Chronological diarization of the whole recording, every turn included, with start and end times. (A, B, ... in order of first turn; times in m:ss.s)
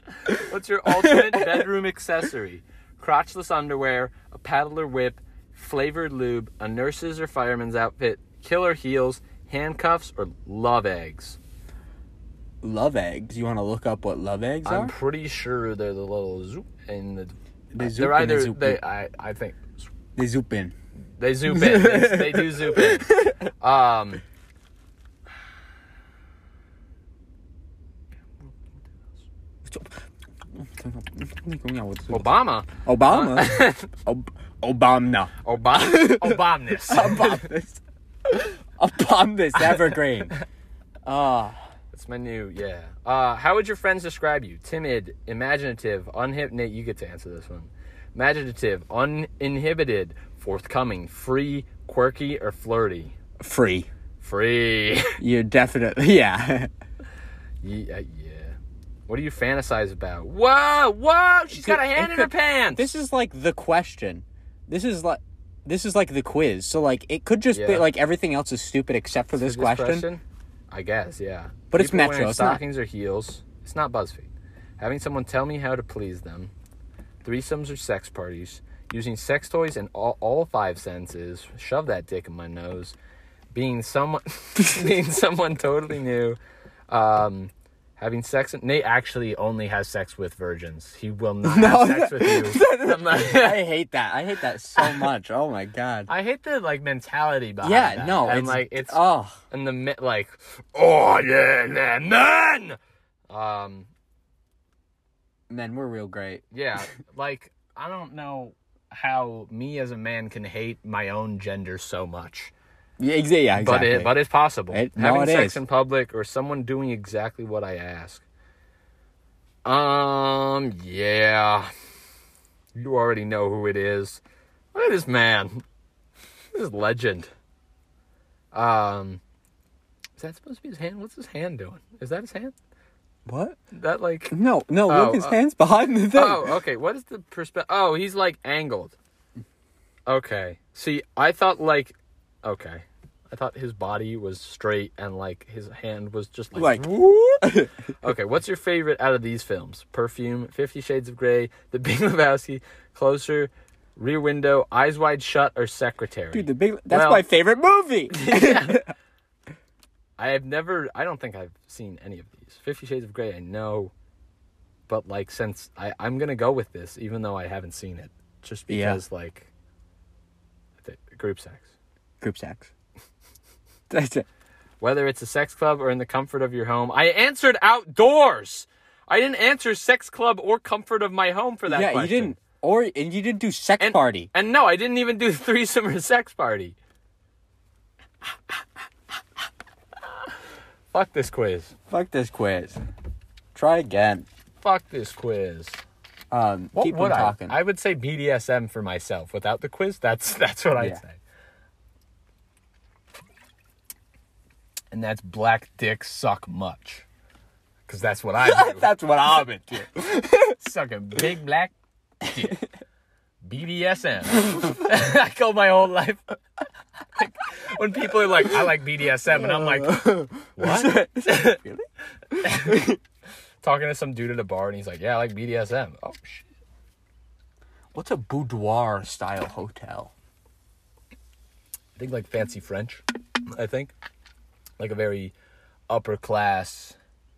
0:00.2-0:01.7 A
0:00.3-0:11.4 B
0:12.6-0:14.9 A
0:14.6-0:19.8 B
0:17.7-0:18.8 A
0:20.2-0:20.7 A
0:21.2-0:24.2 B
0:21.5-0:23.5 A
0:29.6-0:30.0 A
0:30.5-0:40.4 A
0:32.1-0:33.9 B
0:35.4-0:37.5 B
0:41.0-0:41.6 A
0:41.9-0:53.2 B
0:53.4-0:53.9 A
0:54.2-0:55.2 B
0:55.2-0:56.7 A
0:57.6-0:58.6 B
0:59.1-1:02.9 B
1:01.5-1:10.1 A
1:07.5-1:07.9 B
1:09.3-1:16.5 B
1:11.7-1:12.6 A
1:17.2-1:23.0 B
1:23.5-1:26.4 B
1:26.9-1:33.6 B
1:31.4-1:36.1 A
1:34.8-1:35.1 B
1:36.1-1:39.0 B
1:37.6-1:39.4 A
1:39.5-1:42.8 B
1:43.3-1:43.9 B
1:45.5-1:46.4 A
1:46.5-1:52.5 B
1:53.0-1:54.2 A
1:53.6-1:58.2 B
1:54.7-1:55.6 A
1:59.6-2:01.7 B
2:02.7-2:04.2 B
2:04.7-2:05.6 B
2:06.5-2:07.3 B
2:08.5-2:09.2 B
2:10.2-2:12.5 B
2:13.2-2:13.6 A
2:13.7-2:14.4 B
2:14.3-2:16.6 A
2:14.9-2:15.4 B
2:16.1-2:19.0 B
2:20.1-2:27.1 B
2:26.5-2:27.8 A
2:28.0-2:37.2 B
2:36.3-2:38.9 A
2:38.1-2:38.8 B
2:40.2-2:43.9 B
2:44.9-2:49.5 B
2:48.7-2:49.0 A
2:50.8-2:51.7 B
2:52.2-2:52.7 A
2:53.9-2:54.2 A
2:54.8-3:02.4 B
3:01.7-3:04.3 A
3:03.8-3:06.8 B
3:10.9-3:11.7 B
3:11.9-3:12.8 A
3:13.5-3:14.2 A
3:14.6-3:15.8 B
3:16.3-3:17.6 A
3:16.7-3:21.2 B
3:24.9-3:27.0 B
3:27.9-3:28.9 B
3:28.4-3:30.6 A
3:30.6-3:32.6 B
3:32.3-3:32.6 A
3:33.4-3:36.2 B
3:37.2-3:41.6 B
3:39.3-3:43.0 A
3:42.4-3:42.8 B
3:43.6-3:46.5 B
3:47.9-3:50.1 A
3:52.0-3:53.9 B
3:54.8-3:55.3 B
3:55.9-3:57.0 B